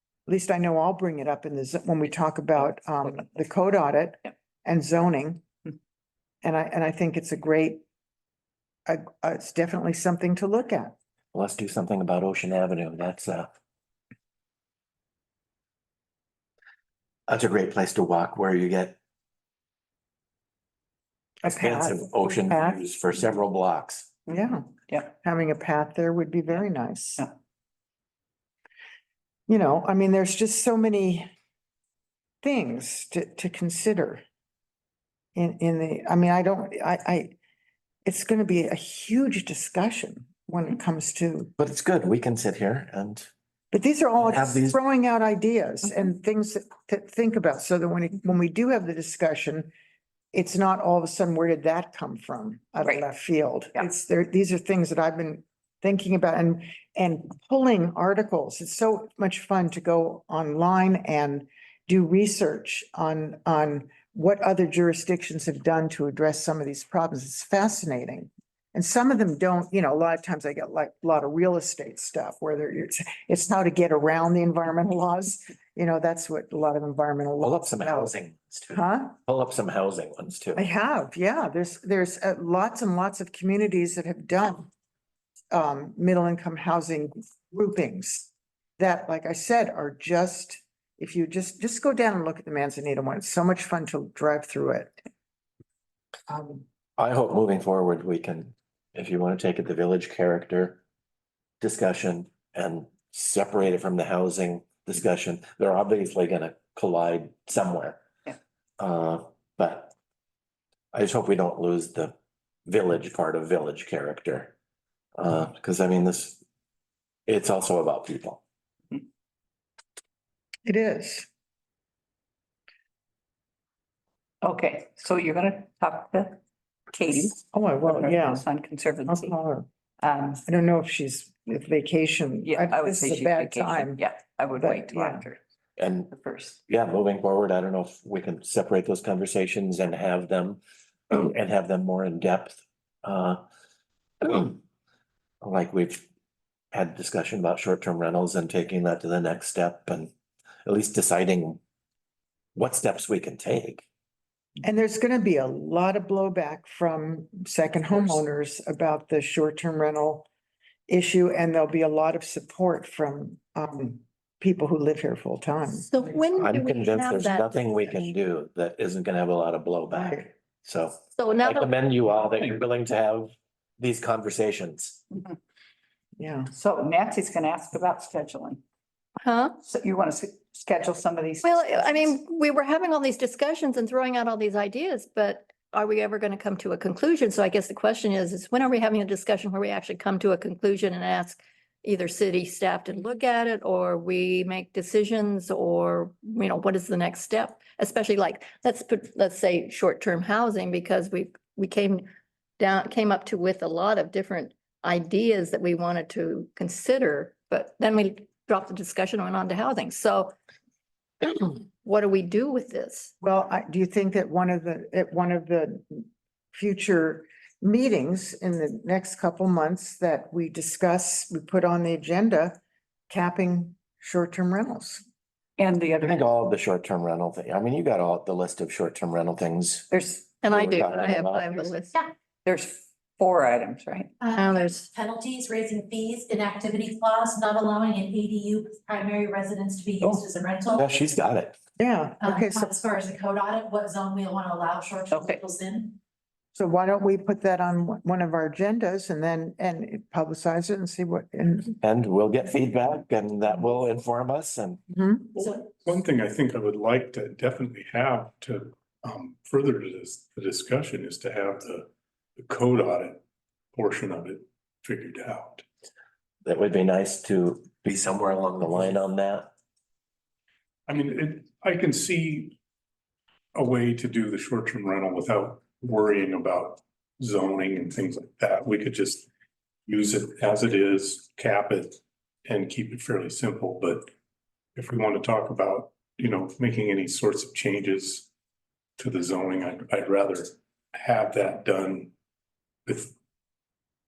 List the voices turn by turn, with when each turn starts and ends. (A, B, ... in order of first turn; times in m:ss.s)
0:00.3-0:05.5 A
0:06.4-0:07.8 A
0:08.9-0:11.0 A
0:11.3-0:13.5 B
0:17.3-0:19.0 B
0:21.4-0:22.8 A
0:21.4-0:24.1 B
0:24.3-0:27.2 A
0:29.5-0:31.3 A
0:32.4-0:34.2 A
0:35.4-0:37.3 A
0:38.0-0:41.5 A
0:41.6-0:43.3 B
0:43.7-0:49.7 A
0:44.2-0:44.8 B
0:50.3-1:18.1 A
1:17.4-1:20.6 B
1:18.7-1:19.2 A
1:20.6-1:24.7 A
1:25.5-1:35.0 A
1:36.3-1:36.6 A
1:37.0-1:40.8 B
1:41.6-1:48.0 B
1:48.8-1:49.9 B
1:50.9-1:52.1 B
1:52.7-1:54.5 B
1:55.2-1:56.4 B
1:57.3-1:58.4 B
2:00.6-2:01.3 A
2:04.4-2:09.4 C
2:07.5-2:08.4 A
2:09.1-2:09.7 A
2:10.0-2:10.4 C
2:10.5-2:15.2 A
2:12.4-2:15.4 C
2:15.8-2:16.1 B
2:16.1-2:16.6 C
2:16.7-2:23.4 B
2:24.2-2:24.6 B
2:25.4-2:26.1 B
2:26.7-2:30.1 B
2:30.6-2:31.6 B
2:32.6-2:33.8 B
2:34.6-2:40.3 A
2:40.9-2:45.9 A
2:45.9-2:47.5 D
2:46.4-2:55.0 B
2:49.9-2:50.3 A
2:51.2-2:51.7 D
2:56.2-2:56.5 A
2:56.5-2:58.6 C
2:59.2-2:59.6 D
2:59.6-3:02.2 C
3:01.4-3:22.1 D
3:22.6-3:30.3 D
3:31.2-3:33.1 D
3:33.2-3:45.0 A
3:45.6-3:46.2 C
3:46.0-3:49.9 B
3:49.9-3:50.2 C
3:50.4-3:52.0 D
3:50.4-3:51.7 B
3:52.4-3:54.1 C
3:54.2-4:00.9 E
3:54.3-3:54.9 D
4:00.8-4:01.6 B
4:01.8-4:02.7 A
4:02.2-4:06.0 E
4:05.1-4:05.4 C
4:06.5-4:11.8 A
4:11.8-4:14.8 B
4:14.9-4:15.3 A
4:15.4-4:23.2 F
4:23.7-4:25.6 F
4:26.4-4:29.5 B
4:30.9-4:32.6 F
4:33.6-4:39.3 F
4:39.9-4:44.1 F
4:44.8-4:48.3 F
4:49.0-4:52.1 F
4:52.9-4:53.1 F